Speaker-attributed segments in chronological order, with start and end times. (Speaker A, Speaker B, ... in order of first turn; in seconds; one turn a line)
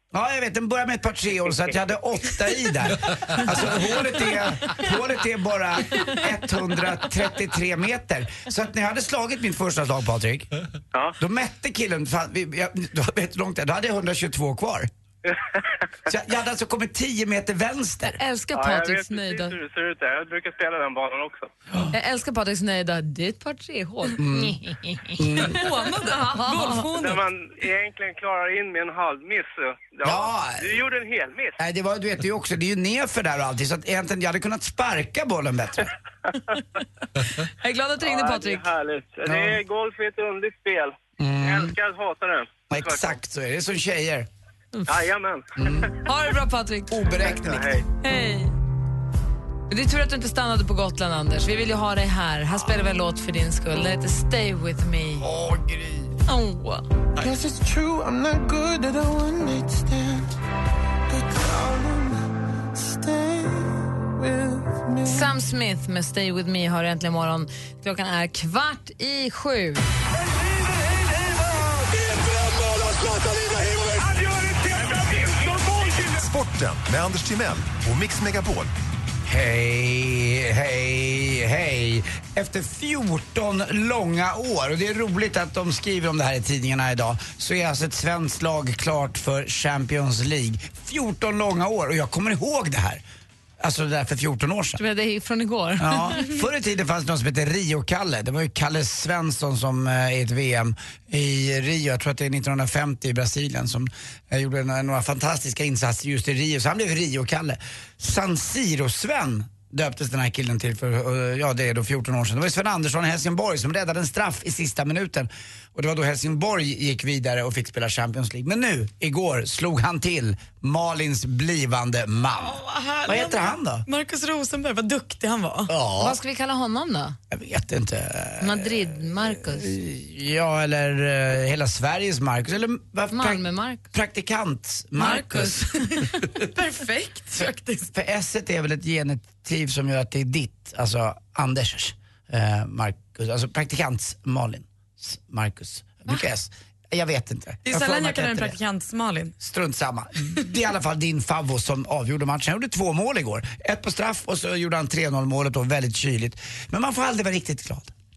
Speaker A: 0.1-10.5
Speaker A: 11.2-14.9
Speaker A: 16.1-18.2
Speaker B: 18.1-19.6
Speaker C: 18.5-21.5
Speaker B: 21.9-26.9
Speaker A: 24.2-25.6
Speaker D: 25.5-27.2
Speaker C: 26.9-31.6
Speaker A: 30.0-30.8
Speaker A: 31.6-35.9
Speaker B: 37.5-38.7
Speaker C: 38.0-43.2
Speaker A: 39.2-39.6
Speaker A: 41.2-41.8
Speaker A: 42.7-44.3
Speaker C: 44.9-45.9
Speaker A: 45.6-45.9
Speaker B: 46.0-47.2
Speaker A: 46.9-47.7
Speaker C: 47.2-47.9
Speaker B: 48.0-48.5
Speaker B: 49.7-55.2
Speaker A: 55.2-56.1
Speaker B: 56.3-56.8
Speaker E: 57.2-59.9
Speaker E: 61.1-62.1
Speaker E: 64.2-64.7
Speaker B: 65.0-69.8
Speaker E: 74.8-76.1
Speaker F: 76.1-78.7
Speaker A: 79.2-93.0
Speaker A: 93.6-94.8
Speaker B: 94.8-96.3
Speaker A: 95.8-123.8
Speaker D: 122.4-125.7
Speaker A: 125.7-126.2
Speaker B: 126.0-127.2
Speaker A: 127.3-136.1
Speaker B: 128.4-129.7
Speaker B: 133.1-133.8
Speaker D: 135.0-137.9
Speaker A: 137.9-148.5
Speaker D: 147.7-149.3
Speaker A: 149.4-157.9